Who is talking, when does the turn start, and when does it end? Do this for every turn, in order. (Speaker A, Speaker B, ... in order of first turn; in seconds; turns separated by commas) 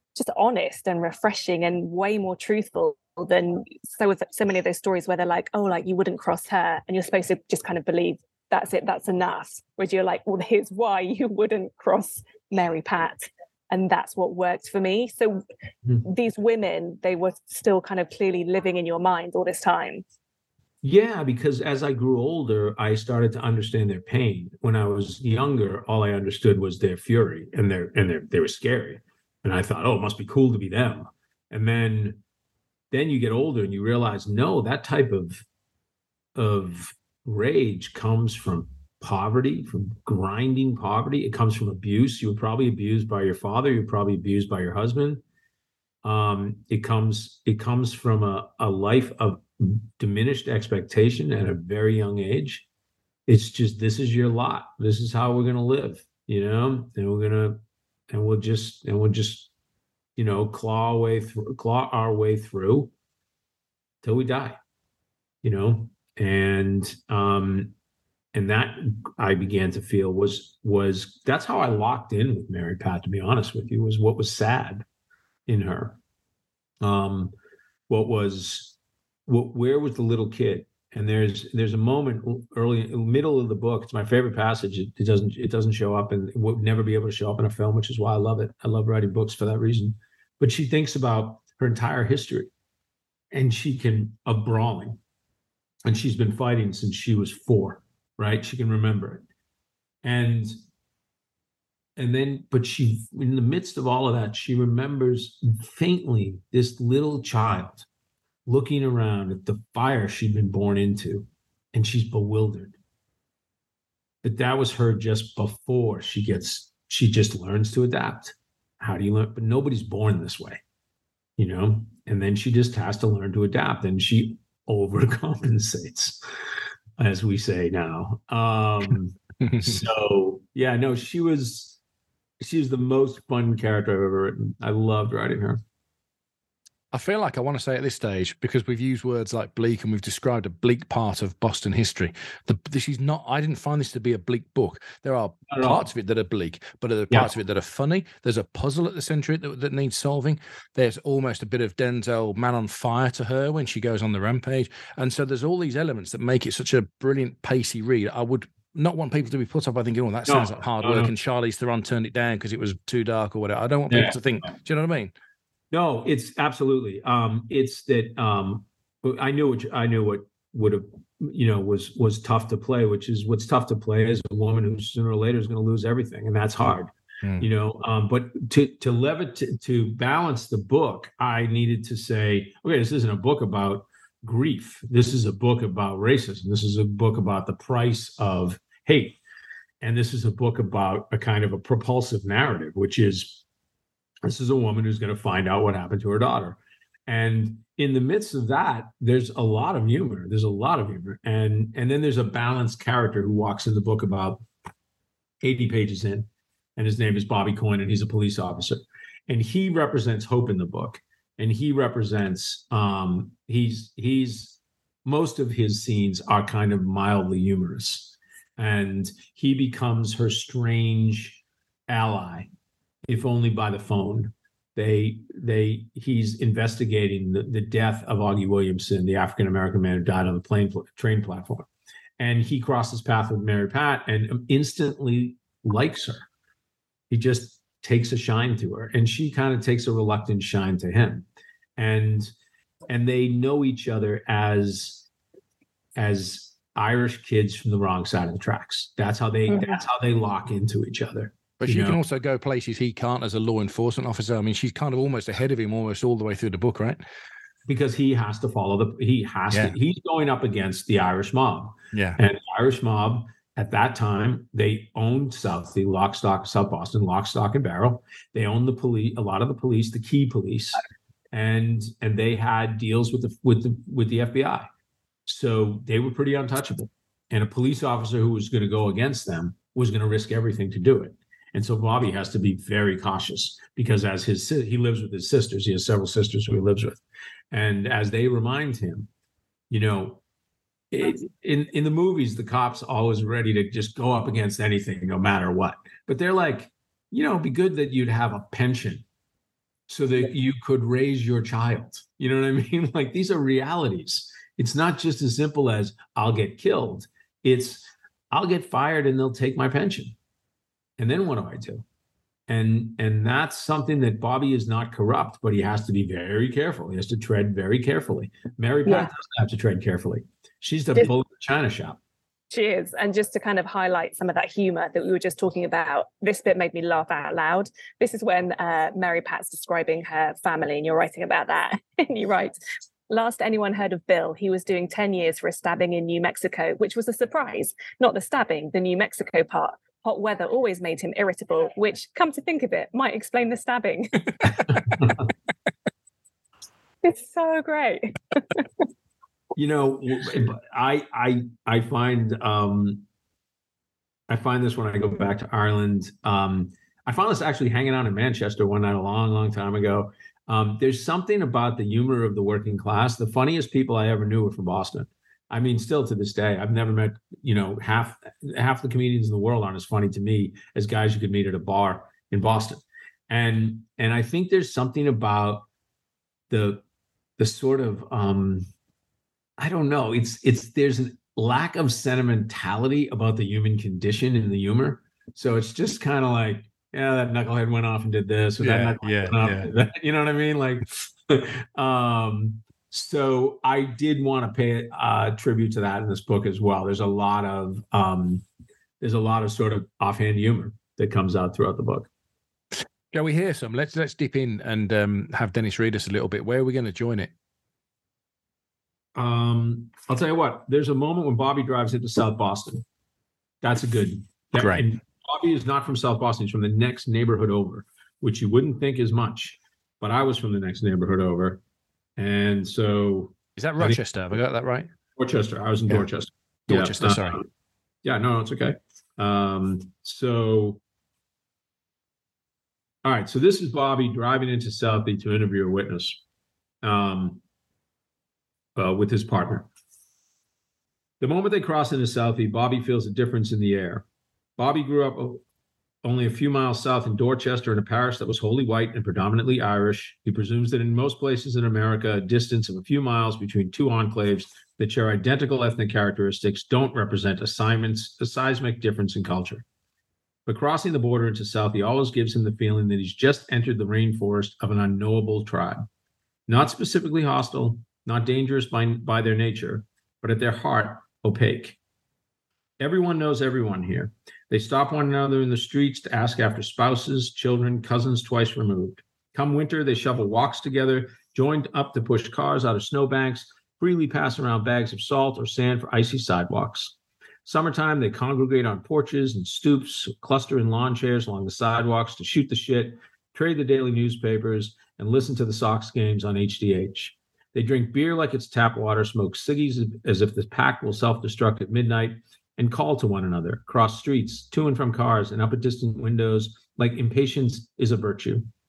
Speaker A: 0.1-15.4, Speaker A: 16.0-20.0, Speaker B: 20.8-32.2, Speaker B: 32.9-35.4, Speaker B: 36.3-45.2, Speaker B: 46.0-52.6, Speaker B: 53.3-59.5, Speaker B: 60.2-62.9, Speaker B: 64.0-64.6, Speaker B: 65.4-67.7, Speaker B: 68.3-74.8, Speaker B: 75.5-76.0, Speaker B: 76.8-77.3, Speaker B: 77.9-78.7, Speaker B: 79.3-92.5, Speaker B: 93.3-95.0, Speaker B: 95.8-99.2, Speaker B: 100.0-100.5, Speaker B: 102.0-107.8, Speaker B: 108.5-112.8, Speaker B: 114.2-120.6, Speaker B: 121.4-126.2, Speaker B: 127.0-131.8, Speaker C: 129.4-129.8, Speaker B: 132.4-135.6, Speaker C: 136.9-165.1, Speaker B: 145.5-145.8, Speaker B: 160.3-161.1, Speaker B: 163.9-164.2, Speaker B: 165.7-189.2, Speaker C: 177.2-177.5, Speaker B: 189.8-193.4, Speaker B: 194.2-204.4, Speaker B: 205.4-222.5, Speaker B: 223.1-231.7, Speaker B: 232.2-236.2, Speaker B: 237.1-241.2, Speaker B: 241.8-242.3, Speaker B: 242.9-245.0, Speaker B: 245.9-252.0, Speaker A: 249.5-249.8, Speaker C: 251.6-257.0, Speaker B: 257.7-274.7, Speaker C: 261.9-262.2, Speaker B: 275.2-289.1, Speaker B: 289.7-290.2, Speaker B: 290.9-299.0, Speaker B: 299.9-310.1, Speaker B: 311.0-311.8, Speaker B: 312.5-322.0, Speaker A: 322.5-332.6, Speaker A: 333.1-344.2, Speaker A: 347.0-348.6, Speaker B: 349.6-353.0, Speaker B: 354.3-375.6, Speaker B: 376.5-376.8, Speaker B: 377.4-378.7, Speaker B: 379.6-398.4, Speaker C: 388.6-389.7, Speaker B: 399.0-402.1, Speaker C: 403.1-407.3, Speaker B: 409.1-412.8, Speaker B: 413.6-421.6, Speaker C: 414.6-414.8, Speaker B: 422.2-424.0, Speaker C: 423.6-424.9, Speaker B: 425.2-427.5, Speaker C: 426.7-427.4, Speaker B: 428.0-430.8, Speaker B: 433.0-436.2, Speaker B: 436.8-437.4, Speaker B: 438.8-439.7, Speaker B: 441.2-444.0, Speaker B: 444.6-445.4, Speaker B: 446.0-459.6, Speaker B: 460.4-465.9, Speaker B: 466.5-471.8, Speaker B: 472.8-486.9, Speaker B: 487.4-508.4